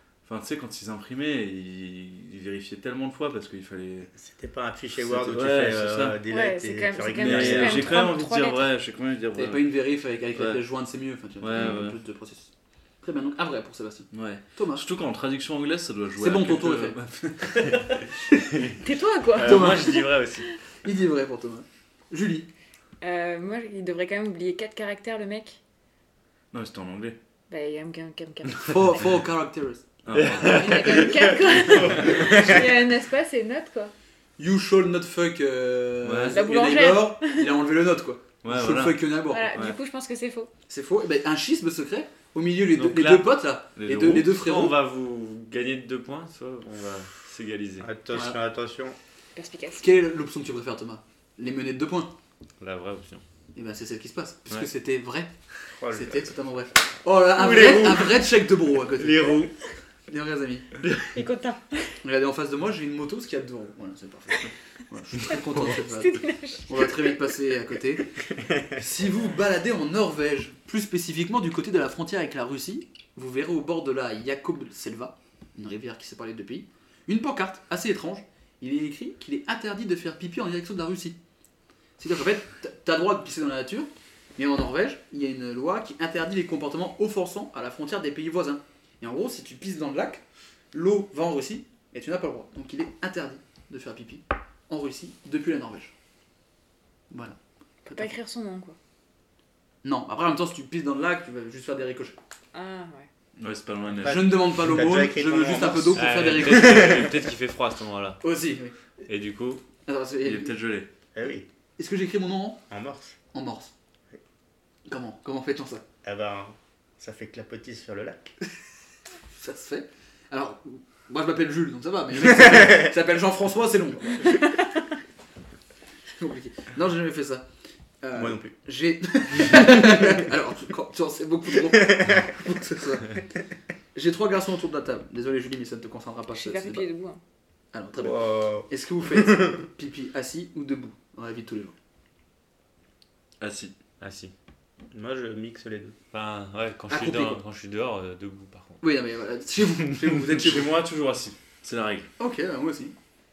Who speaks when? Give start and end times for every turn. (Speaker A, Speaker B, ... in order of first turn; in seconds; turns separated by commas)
Speaker A: 0.2-4.1, Speaker B: 4.2-8.0, Speaker A: 5.0-6.2, Speaker C: 6.3-8.7, Speaker A: 7.1-9.7, Speaker D: 9.3-12.5, Speaker A: 10.3-10.6, Speaker A: 11.4-12.0, Speaker C: 11.5-11.8, Speaker D: 13.0-14.8, Speaker A: 14.1-18.0, Speaker D: 16.2-18.4, Speaker C: 18.8-20.1, Speaker E: 19.3-20.5, Speaker D: 19.4-20.0, Speaker D: 20.8-22.5, Speaker C: 23.0-25.6, Speaker A: 26.5-27.2, Speaker C: 27.5-28.8, Speaker D: 28.6-29.8, Speaker A: 30.0-31.0, Speaker E: 30.1-32.5, Speaker C: 30.4-33.9, Speaker D: 34.4-39.5, Speaker A: 36.0-36.4, Speaker C: 36.3-37.5, Speaker A: 38.4-39.8, Speaker C: 39.3-40.5, Speaker D: 40.7-44.8, Speaker E: 42.7-43.3, Speaker A: 43.8-44.3, Speaker E: 44.3-47.9, Speaker B: 47.8-49.0, Speaker C: 49.3-49.8, Speaker D: 49.8-52.1, Speaker E: 52.6-53.2, Speaker D: 53.5-55.3, Speaker B: 55.7-56.3, Speaker D: 55.9-59.5, Speaker E: 57.4-58.2, Speaker C: 57.4-57.9, Speaker E: 59.0-59.5, Speaker D: 60.1-60.7, Speaker E: 60.8-61.1, Speaker C: 61.1-61.9, Speaker D: 62.0-68.1, Speaker C: 65.3-67.2, Speaker B: 68.4-68.7, Speaker D: 68.7-81.2, Speaker D: 82.0-95.9, Speaker D: 97.1-97.4, Speaker C: 97.8-98.8, Speaker D: 97.9-98.2, Speaker D: 99.8-102.2, Speaker C: 102.5-103.1, Speaker A: 103.4-104.5, Speaker B: 104.0-107.0, Speaker D: 104.0-107.1, Speaker E: 105.9-108.2, Speaker D: 108.2-108.7, Speaker E: 109.0-109.6, Speaker D: 109.8-110.6, Speaker A: 110.2-110.9, Speaker B: 111.1-111.5, Speaker D: 111.8-112.6, Speaker B: 112.7-113.2, Speaker D: 113.3-113.7, Speaker D: 114.9-115.8, Speaker B: 116.0-118.2, Speaker D: 119.4-124.4, Speaker D: 126.2-127.4, Speaker D: 128.0-133.2, Speaker B: 128.1-128.5, Speaker B: 131.8-132.2, Speaker D: 133.9-136.9, Speaker C: 136.3-137.2, Speaker D: 137.7-141.7, Speaker B: 138.0-139.6, Speaker A: 143.4-143.7, Speaker E: 144.0-144.3, Speaker B: 144.9-145.9, Speaker E: 146.1-148.8, Speaker D: 146.9-147.4, Speaker D: 148.8-150.7, Speaker A: 150.3-152.1, Speaker D: 152.2-152.9